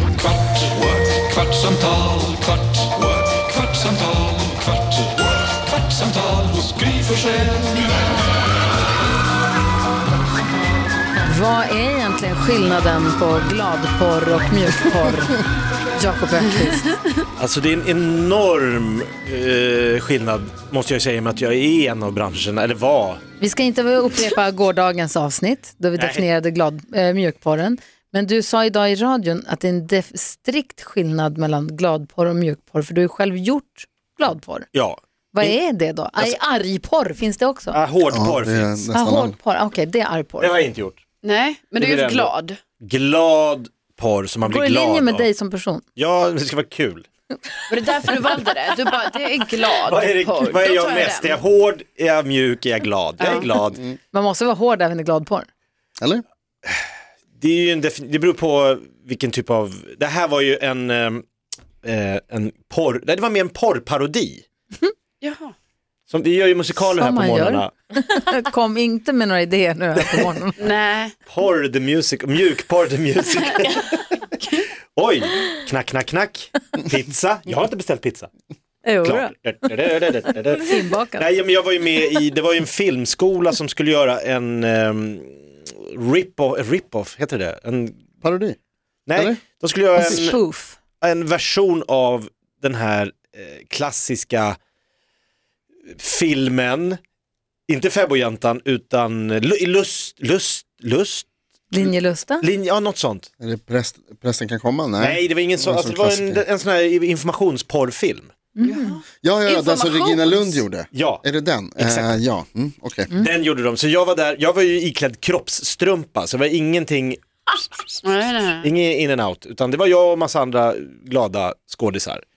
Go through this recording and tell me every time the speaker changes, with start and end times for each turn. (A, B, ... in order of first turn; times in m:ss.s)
0:00.6-0:02.4 A
0:03.0-0:04.3 A
0:06.3-0:07.1 A
0:11.2-0:15.4 B
0:16.0-0:16.9 B
0:16.7-0:17.2 C
0:17.4-0:23.2 D
0:23.4-0:34.7 B
0:26.0-0:26.3 D
0:34.7-0:35.6 D
0:35.3-0:37.8 B
0:37.7-0:38.9 D
0:38.1-0:39.4 E
0:38.9-0:40.5 B
0:40.4-0:41.0 D
0:41.2-0:42.6 C
0:41.8-0:45.3 D
0:44.4-0:45.8 B
0:46.0-0:47.1 D
0:47.7-0:51.4 C
0:49.8-0:53.8 D
0:53.2-0:53.5 C
0:54.1-0:55.5 B
0:57.4-1:01.2 D
1:01.8-1:04.4 D
1:05.2-1:05.5 C
1:06.1-1:07.7 D
1:06.9-1:10.6 B
1:10.0-1:10.2 D
1:10.6-1:11.1 C
1:11.3-1:14.2 D
1:15.0-1:18.3 D
1:18.8-1:19.8 B
1:19.0-1:28.0 D
1:20.3-1:21.3 B
1:28.2-1:28.6 E
1:29.1-1:30.4 D
1:29.2-1:29.4 E
1:30.0-1:30.8 B
1:31.0-1:34.6 D
1:35.9-1:37.0 D
1:37.7-1:41.3 D
1:41.7-1:42.5 B
1:41.8-1:43.3 D
1:43.4-1:46.4 E
1:45.0-1:48.3 D
1:48.6-1:49.0 B
1:48.6-1:50.6 C
1:49.2-1:53.1 E
1:50.9-1:51.2 D
1:51.8-1:52.2 D
1:53.1-1:57.6 D
1:58.0-1:58.7 C
1:58.6-2:02.2 D